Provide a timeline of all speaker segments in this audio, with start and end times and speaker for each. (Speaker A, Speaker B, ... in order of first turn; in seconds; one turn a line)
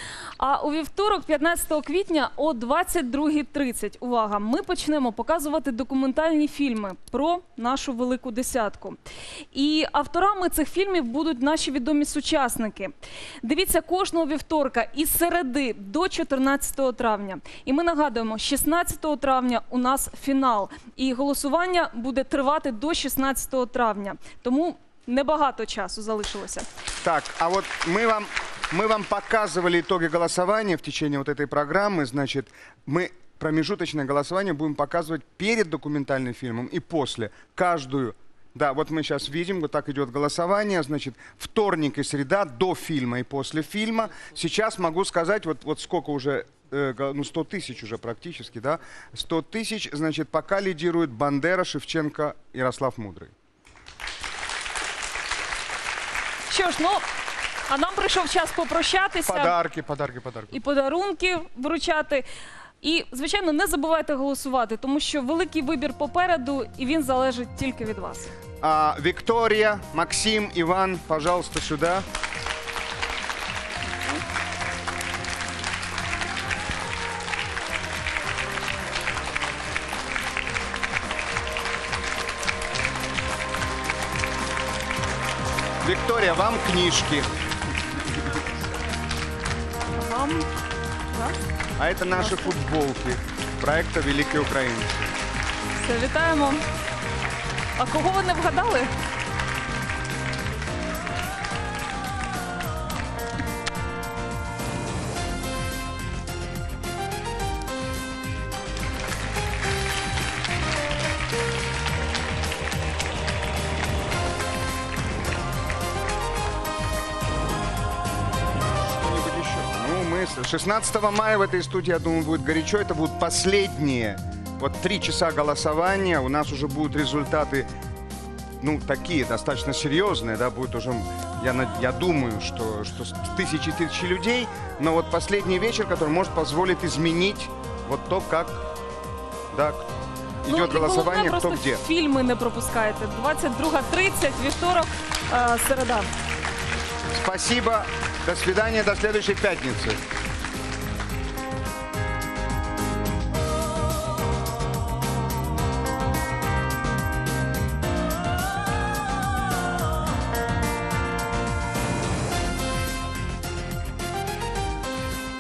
Speaker A: 0.4-9.0
Speaker A: 9.5-26.7
Speaker B: 27.0-53.3
Speaker A: 56.5-57.0
Speaker A: 57.7-59.5
Speaker B: 59.3-60.6
Speaker A: 60.5-62.2
Speaker A: 62.8-68.3
Speaker B: 68.6-72.0
Speaker B: 85.8-87.3
Speaker A: 89.9-90.5
Speaker A: 91.1-91.4
Speaker B: 91.8-95.1
Speaker A: 92.2-92.5
Speaker A: 95.8-96.6
Speaker A: 97.8-98.9
Speaker B: 118.8-127.7
Speaker B: 128.6-138.7
Speaker B: 139.5-139.9
Speaker B: 140.4-141.8
Speaker A: 140.5-146.1
Speaker B: 147.1-150.0